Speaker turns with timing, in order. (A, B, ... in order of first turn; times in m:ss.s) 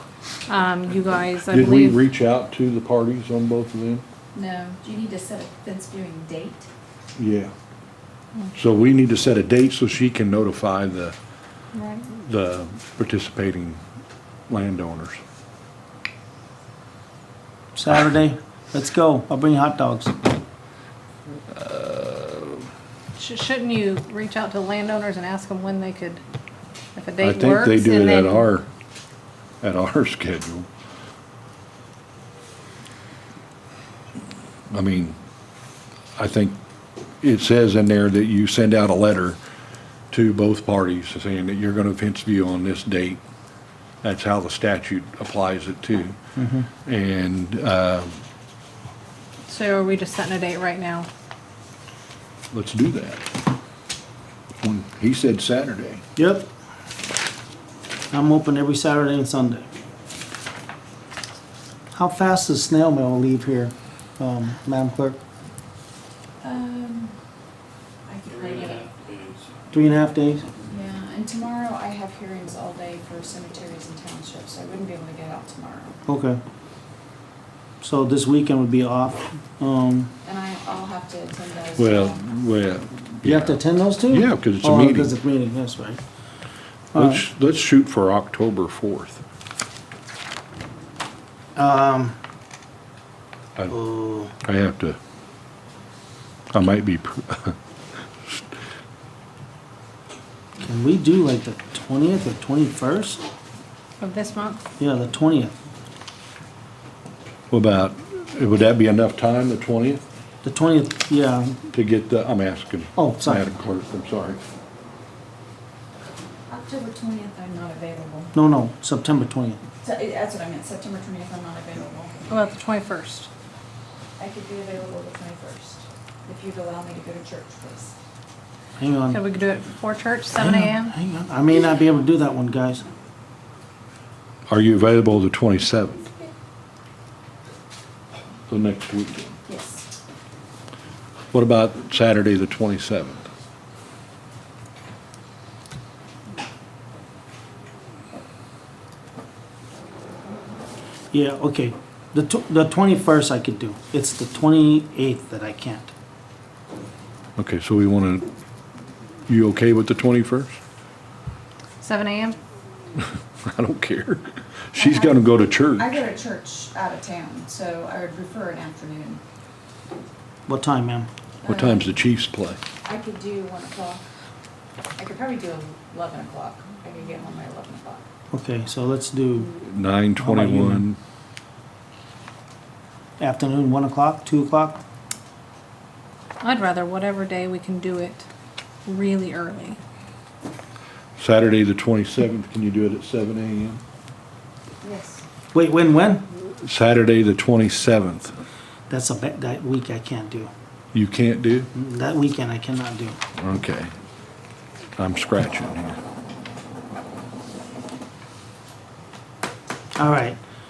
0:00.5-0:02.0 A
0:01.5-0:04.0 B
0:04.3-0:06.7 C
0:07.2-0:07.5 B
0:08.6-0:11.2 B
0:11.7-0:12.1 A
0:12.1-0:13.8 B
0:14.5-0:15.2 B
0:17.8-0:20.2 D
0:21.5-0:22.6 B
0:23.2-0:26.2 A
0:27.0-0:28.5 A
0:27.2-0:28.7 B
0:29.6-0:30.7 B
0:34.7-0:35.2 B
0:36.2-0:36.6 B
0:37.2-0:39.4 B
0:40.1-0:43.2 B
0:44.0-0:46.2 B
0:46.4-0:46.7 D
0:46.9-0:48.2 B
0:49.5-0:51.1 A
0:52.5-0:53.2 B
0:54.6-0:56.0 B
0:56.2-0:56.5 D
0:58.1-0:59.7 D
1:01.9-1:05.2 D
1:06.4-1:07.2 C
1:08.1-1:09.0 C
1:09.7-1:10.4 D
1:10.7-1:16.0 C
1:16.1-1:16.4 D
1:17.8-1:20.1 D
1:20.2-1:22.2 C
1:21.8-1:25.1 B
1:23.2-1:26.0 D
1:26.9-1:27.2 D
1:26.9-1:29.2 B
1:31.6-1:32.2 D
1:33.7-1:34.3 D
1:34.4-1:35.0 B
1:36.5-1:37.6 B
1:40.6-1:43.2 D
1:44.0-1:44.6 A
1:44.8-1:45.6 D
1:47.5-1:50.0 B
1:50.4-1:51.6 D
1:51.7-1:54.4 B
1:53.0-1:53.5 D
1:56.5-1:58.3 C
1:58.3-1:59.6 D
1:59.8-2:02.2 C
2:02.3-2:03.3 A
2:04.2-2:08.0 C
2:08.8-2:09.2 D
2:09.1-2:10.9 A
2:10.4-2:12.9 D
2:14.5-2:16.1 B
2:18.5-2:19.4 B
2:19.5-2:19.9 C
2:21.3-2:23.3 B
2:31.1-2:35.9 D
2:37.4-2:38.3 B
2:39.3-2:40.6 B
2:41.8-2:42.4 A
2:43.0-2:46.0 B
2:44.8-2:45.2 C
2:45.8-2:49.2 C
2:50.5-2:51.1 D
2:51.4-2:51.9 C
2:51.5-2:52.6 B
2:52.8-2:54.0 C
2:55.0-2:58.0 C
2:58.3-2:59.5 D
2:59.6-3:01.0 B
3:00.2-3:00.8 D
3:03.2-3:04.8 D
3:06.4-3:08.3 A
3:08.9-3:09.8 A
3:11.2-3:13.8 B
3:14.8-3:15.2 C
3:15.5-3:16.3 D
3:16.6-3:18.3 B
3:18.9-3:20.5 D
3:20.9-3:21.7 B
3:21.7-3:23.2 D
3:23.4-3:23.9 B
3:25.0-3:26.0 B
3:30.0-3:30.4 D